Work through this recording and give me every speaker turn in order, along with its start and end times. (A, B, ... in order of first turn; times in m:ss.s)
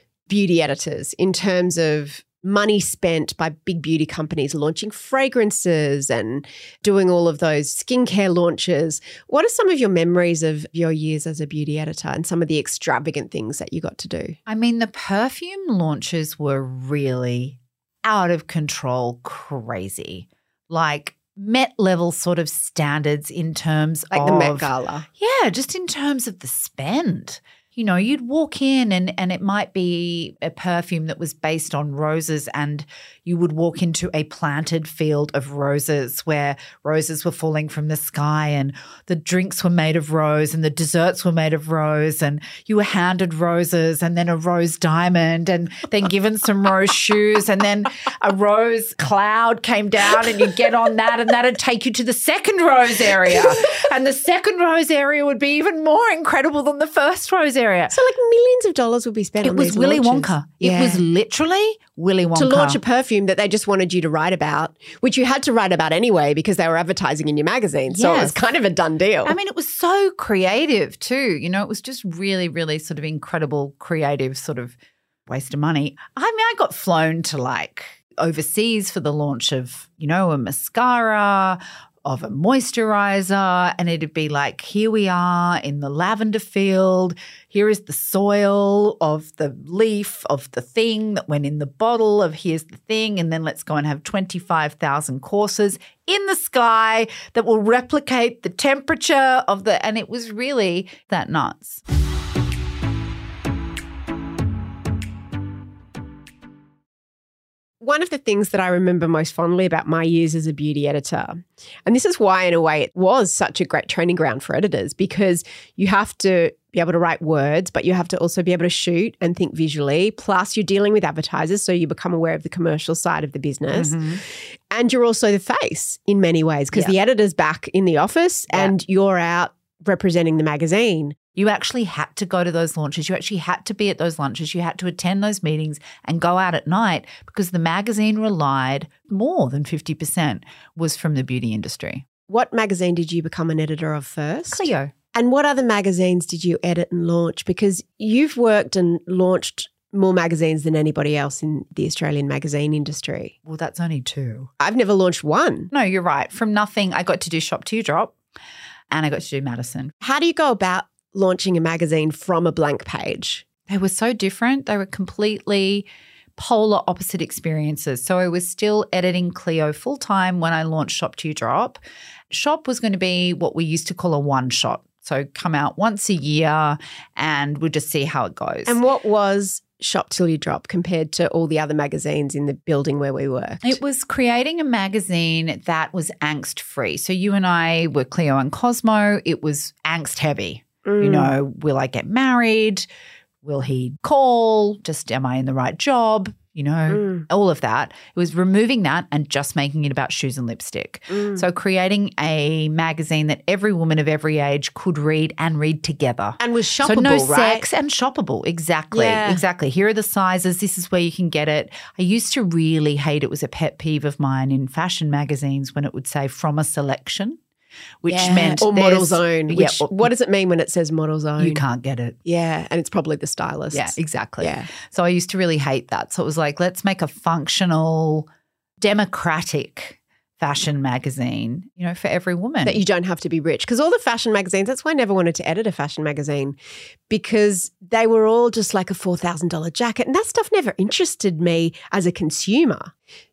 0:00.3-0:14.4 A
0:14.5-0:58.0 B
0:24.1-0:25.1 A
0:57.9-1:01.0 A
0:59.4-1:02.8 B
1:02.4-1:09.4 A
1:07.9-1:08.4 B
1:09.2-1:41.8 B
1:47.8-2:04.1 A
2:03.7-2:04.2 B
2:04.7-2:11.2 A
2:11.4-2:22.0 B
2:22.3-2:33.4 A
2:24.5-2:24.9 B
2:33.4-2:34.5 B
2:34.6-2:35.7 A
2:35.7-2:38.2 B
2:38.9-2:39.9 B
2:40.0-2:43.5 A
2:43.7-2:51.8 B
2:52.3-2:58.8 B
2:58.7-3:03.8 A
3:03.6-3:12.9 B
3:10.9-3:11.3 A
3:13.4-3:37.4 B
3:16.9-3:17.3 A
3:21.1-3:21.4 A
3:26.4-3:27.7 A
3:28.9-3:29.4 A
3:38.0-3:40.1 B
3:38.1-3:41.6 A
3:41.4-3:42.2 B
3:42.2-3:44.7 A
3:43.7-3:48.3 B
3:48.8-3:52.8 B
3:52.6-3:56.6 A
3:57.1-4:02.9 A